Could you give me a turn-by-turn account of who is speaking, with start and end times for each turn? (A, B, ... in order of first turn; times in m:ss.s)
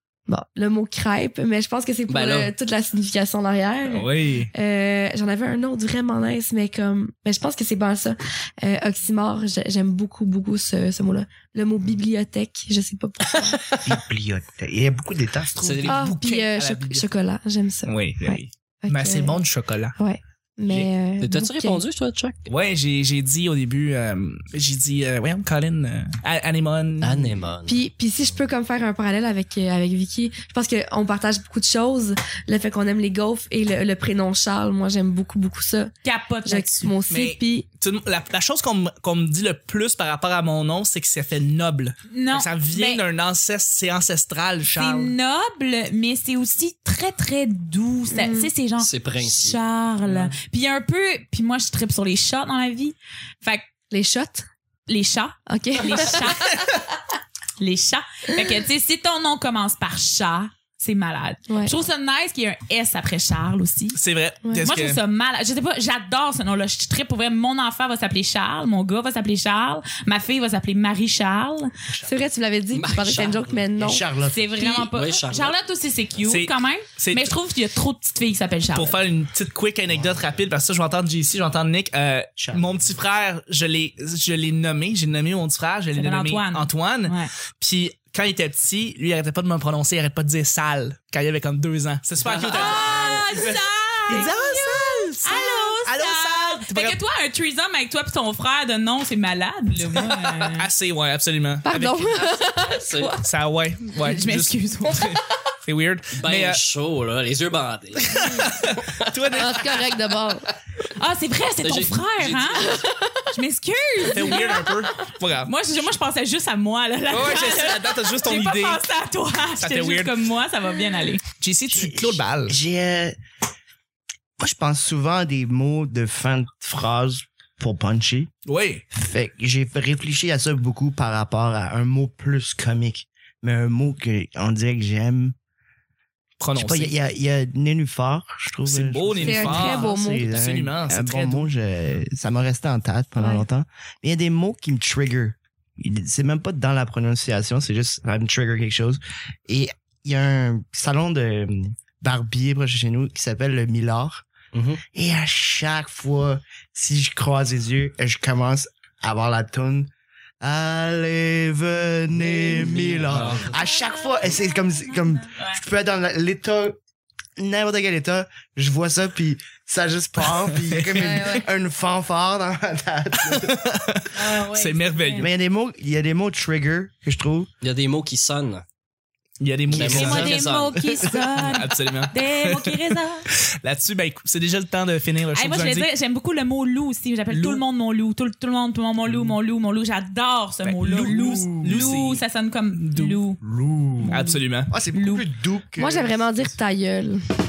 0:00.3-0:13.6 A
0:02.1-0:02.5 B
0:03.9-0:04.5 C
0:13.3-0:13.9 B
0:13.8-0:15.9 D
0:15.6-0:17.1 C
0:15.6-0:16.0 B
0:15.9-0:19.4 A
0:17.9-0:20.0 C
0:20.0-0:21.8 A
0:20.8-0:22.5 B
0:22.5-0:27.3 C
0:27.0-0:27.8 B
0:27.7-0:37.7 A
0:36.0-0:36.9 E
0:37.1-0:45.1 C
0:42.1-0:43.0 E
0:44.6-0:53.6 E
0:48.1-0:48.5 A
0:48.8-0:49.6 B
0:50.0-0:50.4 C
0:53.9-0:54.5 A
0:54.9-0:56.6 E
0:55.5-0:56.5 A
0:57.6-1:04.0 E
1:01.5-1:01.8 A
1:03.9-1:05.0 C
1:04.6-1:11.7 E
1:12.0-1:14.1 A
1:12.7-1:13.7 B
1:13.8-1:14.7 D
1:14.2-1:19.0 E
1:14.7-1:15.5 B
1:16.2-1:17.3 C
1:18.7-1:33.6 C
1:19.9-1:20.4 D
1:22.4-1:22.9 D
1:25.9-1:27.3 E
1:32.5-1:40.7 E
1:34.1-1:34.4 A
1:34.1-1:37.0 C
1:40.5-1:42.2 C
1:41.6-1:43.2 A
1:42.7-1:43.2 B
1:43.2-1:46.6 C
1:44.0-1:45.2 E
1:46.2-1:49.8 B
1:48.0-1:49.7 C
1:49.3-1:50.5 A
1:51.0-1:52.8 E
1:51.6-1:52.8 B
1:52.7-1:53.3 A
1:53.3-1:54.7 E
1:54.1-1:55.5 C
1:55.4-2:01.2 E
1:57.1-1:58.8 C
1:59.6-2:00.2 C
2:01.4-2:02.6 C
2:01.7-2:03.2 D
2:04.4-2:08.3 D
2:08.5-2:08.8 C
2:08.9-2:15.4 D
2:16.4-2:16.9 C
2:16.6-2:34.2 D
2:18.7-2:21.5 C
2:19.2-2:20.5 A
2:23.2-2:23.4 A
2:34.5-2:34.8 B
2:34.9-2:39.9 D
2:40.4-2:46.8 D
2:42.2-2:43.5 B
2:43.1-2:43.4 C
2:47.4-2:53.6 D
2:50.6-2:51.2 C
2:51.1-2:51.4 A
2:53.2-2:55.3 C
2:54.1-2:55.3 E
2:55.2-2:57.5 D
2:57.6-2:58.6 B
2:59.4-3:00.4 C
2:59.7-3:01.1 B
2:59.7-3:03.3 E
2:59.8-3:00.3 D
3:01.2-3:02.9 C
3:03.6-3:05.9 C
3:05.3-3:13.4 E
3:07.3-3:07.6 C
3:09.1-3:09.4 C
3:10.6-3:12.2 C
3:11.0-3:11.9 D
3:12.8-3:13.2 C
3:13.4-3:16.5 D
3:14.1-3:14.7 C
3:14.9-3:15.3 E
3:15.8-3:17.2 A